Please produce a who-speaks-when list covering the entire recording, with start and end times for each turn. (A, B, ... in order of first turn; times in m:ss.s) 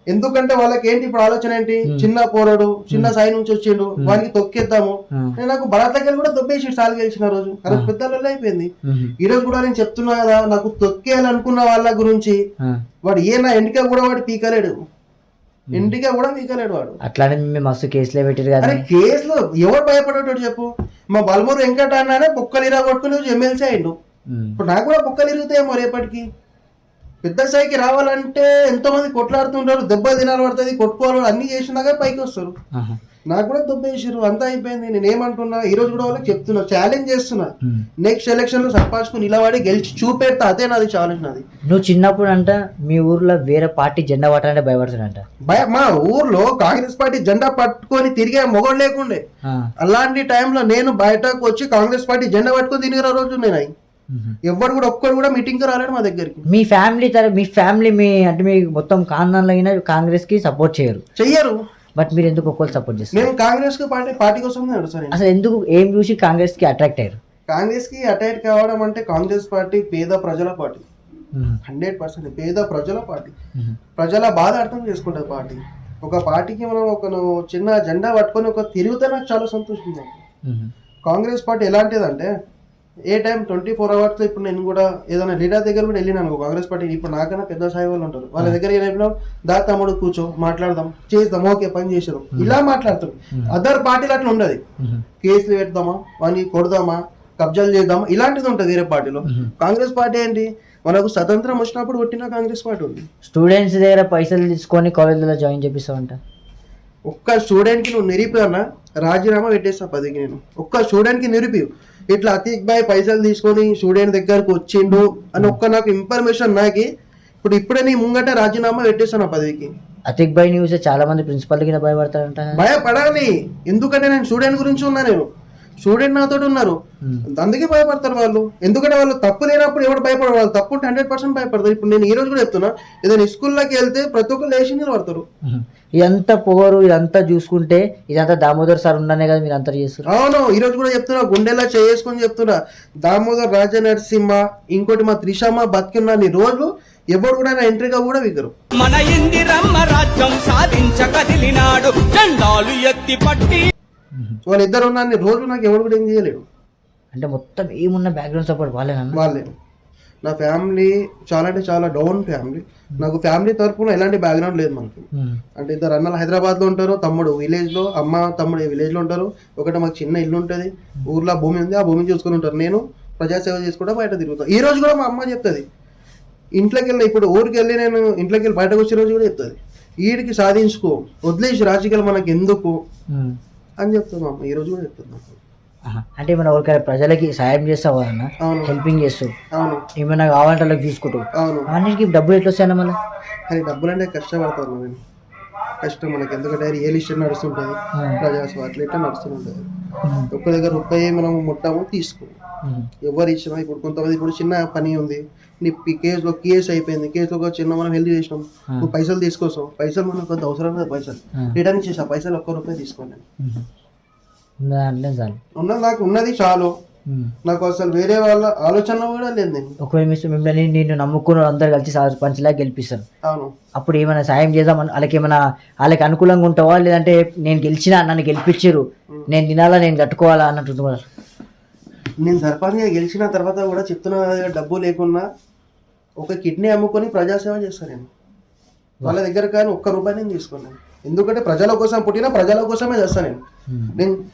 0:00.1-0:12.4 A
0:08.8-0:09.1 B
0:13.0-0:14.7 A
0:15.7-0:17.0 A
0:17.0-0:18.8 B
0:18.6-0:23.9 A
0:24.3-0:24.6 B
0:24.6-0:26.2 A
0:27.2-0:32.5 A
0:33.3-0:41.4 A
0:41.7-0:45.2 B
0:45.5-0:49.2 A
0:49.4-0:49.7 B
0:49.8-0:53.7 A
0:54.1-0:54.4 B
0:54.5-0:56.4 A
0:56.5-1:01.0 B
1:01.2-1:01.6 A
1:02.0-1:03.3 B
1:03.1-1:05.2 A
1:05.1-1:07.2 B
1:07.5-1:10.8 A
1:11.3-1:11.6 B
1:11.6-1:13.3 A
1:14.0-1:20.2 A
1:20.4-1:20.7 B
1:21.0-1:22.3 A
1:23.1-1:34.6 A
1:35.2-1:43.0 A
1:39.3-1:39.5 B
1:43.2-1:46.2 B
1:47.1-1:56.9 A
1:57.4-1:59.7 A
2:00.1-2:02.6 B
2:02.6-2:05.3 A
2:05.8-2:06.8 A
2:07.3-2:15.2 A
2:15.4-2:20.1 B
2:20.1-2:28.5 A
2:28.8-2:33.7 C
2:34.1-2:34.4 B
2:34.5-2:36.4 A
2:37.1-2:39.2 B
2:39.1-2:39.5 A
2:40.2-2:45.0 A
2:45.2-2:45.4 B
2:45.6-2:55.6 A
2:56.6-3:02.8 A
3:03.1-3:03.4 B
3:03.8-3:05.4 A
3:05.9-3:09.3 B
3:08.4-3:08.7 A
3:09.5-3:09.8 A
3:10.0-3:13.0 B
3:11.4-3:11.7 A
3:13.5-3:15.0 A
3:15.8-3:19.6 A
3:18.0-3:18.2 B
3:20.0-3:20.3 B
3:20.3-3:22.3 A
3:23.0-3:33.2 A
3:33.4-3:33.6 B
3:34.6-3:35.4 B
3:35.6-3:36.7 A
3:37.1-3:37.3 B
3:37.4-3:39.7 A
3:39.8-3:43.0 B
3:43.2-3:43.5 A
3:43.8-3:51.0 B
3:52.2-3:55.2 A
3:56.2-3:58.1 A
3:59.0-4:03.4 A
4:03.7-4:04.0 B